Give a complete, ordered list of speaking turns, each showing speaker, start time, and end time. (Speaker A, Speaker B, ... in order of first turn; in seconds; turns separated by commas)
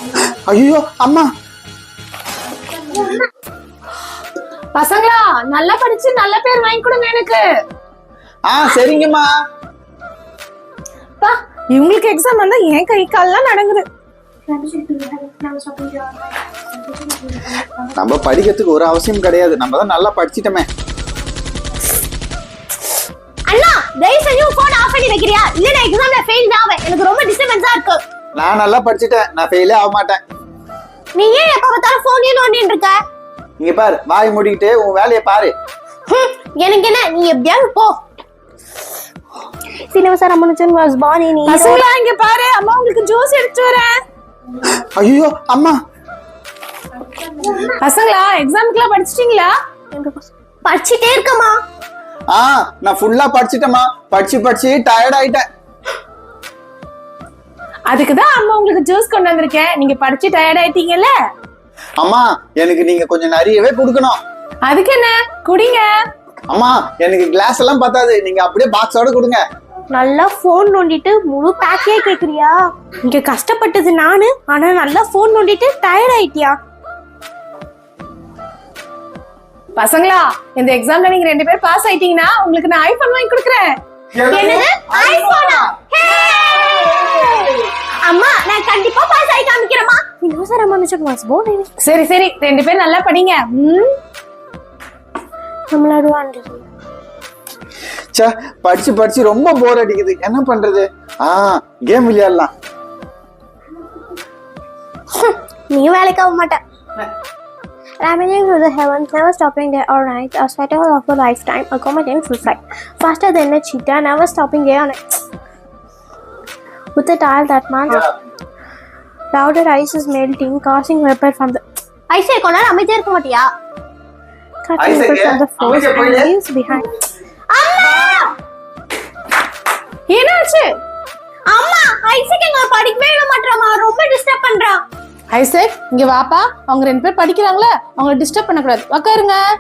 Speaker A: 0.2-1.3, Speaker B: 4.8-7.4, Speaker A: 8.5-9.3, Speaker B: 11.2-13.8, Speaker C: 14.5-16.3, Speaker C: 16.9-17.7, Speaker A: 17.9-20.7, Speaker C: 23.5-28.0, Speaker A: 28.4-30.2, Speaker C: 31.2-33.0, Speaker A: 33.6-35.5, Speaker C: 36.1-38.0, Speaker C: 39.9-41.8, Speaker B: 41.5-43.9, Speaker A: 44.7-45.8, Speaker B: 47.6-49.5, Speaker C: 49.9-51.6, Speaker A: 52.3-55.4, Speaker B: 57.9-61.1, Speaker A: 62.0-64.2, Speaker B: 64.7-65.9, Speaker A: 66.5-69.4, Speaker C: 69.9-76.6, Speaker B: 79.8-83.7, Speaker A: 84.1-85.7, Speaker B: 84.3-84.7, Speaker C: 84.3-91.7, Speaker A: 86.7-87.5, Speaker B: 91.8-93.9, Speaker C: 95.7-96.7, Speaker A: 98.1-102.5, Speaker C: 105.1-106.6, Speaker C: 108.0-115.0, Speaker C: 117.0-118.0, Speaker A: 117.9-118.1, Speaker C: 119.3-123.5, Speaker C: 124.7-126.9, Speaker A: 124.8-126.3, Speaker C: 127.5-128.3, Speaker B: 130.1-130.7, Speaker C: 131.5-134.8, Speaker B: 135.3-139.4